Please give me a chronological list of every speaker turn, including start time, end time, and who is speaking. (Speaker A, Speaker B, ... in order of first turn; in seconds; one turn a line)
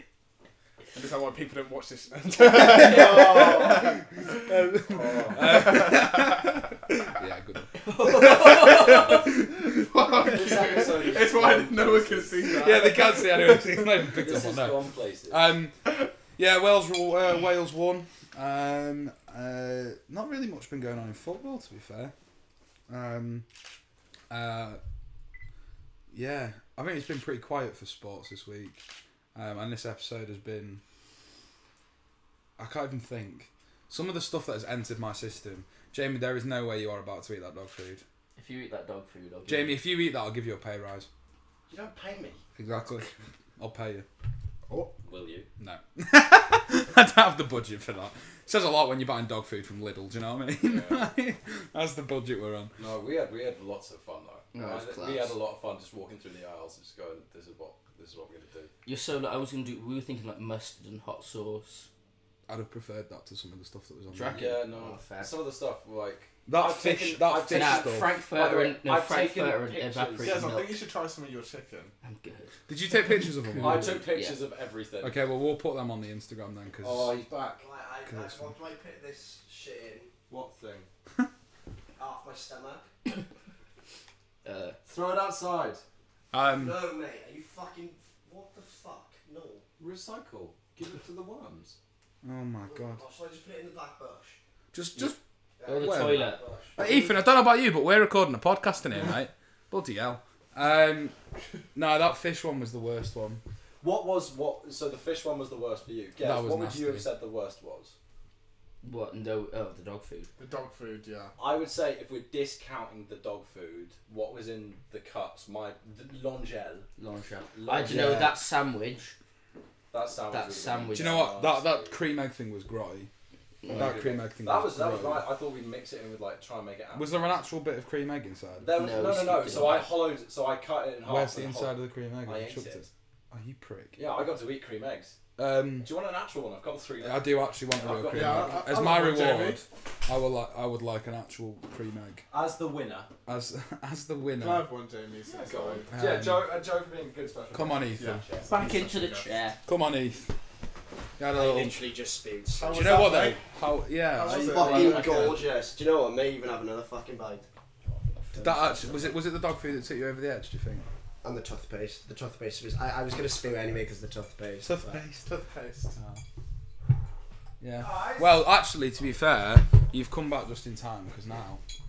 Speaker A: 0.9-4.8
Speaker B: 2.4-9.9
Speaker C: 4.9-5.7
Speaker A: 5.3-6.6
Speaker D: 7.8-9.3
Speaker A: 8.8-14.0
Speaker C: 10.2-12.5
Speaker B: 12.4-22.1
Speaker C: 14.0-15.5
Speaker B: 22.9-23.4
Speaker B: 24.3-24.8
Speaker B: 26.1-28.8
Speaker B: 29.3-30.8
Speaker B: 32.6-38.0
Speaker D: 38.4-39.8
Speaker B: 39.5-41.1
Speaker C: 41.7-42.4
Speaker B: 42.5-44.1
Speaker C: 45.0-45.5
Speaker B: 45.6-52.8
Speaker C: 50.6-51.1
Speaker C: 52.8-58.7
Speaker D: 54.5-55.4
Speaker D: 58.8-61.9
Speaker B: 62.5-64.5
Speaker D: 64.1-64.6
Speaker C: 64.3-70.5
Speaker E: 64.7-65.3
Speaker B: 66.5-68.2
Speaker D: 67.5-70.8
Speaker A: 70.2-71.9
Speaker D: 72.0-72.5
Speaker B: 72.7-74.0
Speaker C: 73.6-75.2
Speaker D: 73.7-74.4
Speaker B: 75.0-77.2
Speaker C: 76.8-77.7
Speaker E: 77.6-80.1
Speaker B: 78.0-78.5
Speaker C: 80.3-80.9
Speaker E: 82.0-82.9
Speaker D: 84.4-84.8
Speaker C: 84.8-85.8
Speaker B: 86.3-86.8
Speaker E: 86.4-89.6
Speaker C: 89.8-91.8
Speaker B: 92.2-93.0
Speaker E: 92.7-94.4
Speaker B: 94.7-95.2
Speaker E: 95.6-97.1
Speaker D: 95.6-96.4
Speaker B: 95.8-101.1
Speaker B: 101.7-103.4
Speaker C: 103.8-107.9
Speaker B: 106.2-107.0
Speaker D: 108.8-110.3
Speaker A: 110.4-111.3
Speaker C: 111.4-116.9
Speaker D: 117.0-119.1
Speaker C: 117.5-118.3
Speaker B: 117.8-118.3
Speaker C: 119.9-122.0
Speaker D: 120.3-121.4
Speaker B: 120.9-123.1
Speaker D: 123.6-124.2
Speaker B: 123.7-125.3
Speaker C: 123.7-127.3
Speaker B: 126.9-128.8
Speaker C: 128.6-132.9
Speaker D: 128.7-130.0
Speaker B: 131.0-134.0
Speaker C: 133.9-135.2
Speaker B: 135.4-135.9
Speaker C: 135.8-138.7
Speaker B: 137.0-142.2
Speaker A: 138.1-139.6
Speaker C: 142.3-143.1
Speaker B: 143.2-144.7
Speaker A: 144.3-145.9
Speaker C: 145.2-148.5
Speaker B: 145.9-146.5
Speaker B: 147.5-148.3
Speaker A: 148.0-149.4
Speaker D: 148.5-149.6
Speaker B: 149.6-150.3
Speaker B: 151.2-151.8
Speaker E: 151.3-153.3
Speaker A: 152.6-153.3
Speaker B: 152.7-155.3
Speaker A: 154.1-155.3
Speaker E: 154.2-157.5
Speaker D: 154.5-155.3
Speaker E: 158.3-159.1
Speaker B: 158.4-160.8
Speaker E: 161.2-165.0
Speaker B: 164.6-165.3
Speaker A: 165.2-166.0
Speaker B: 165.9-166.2
Speaker B: 167.6-171.6
Speaker C: 167.8-168.4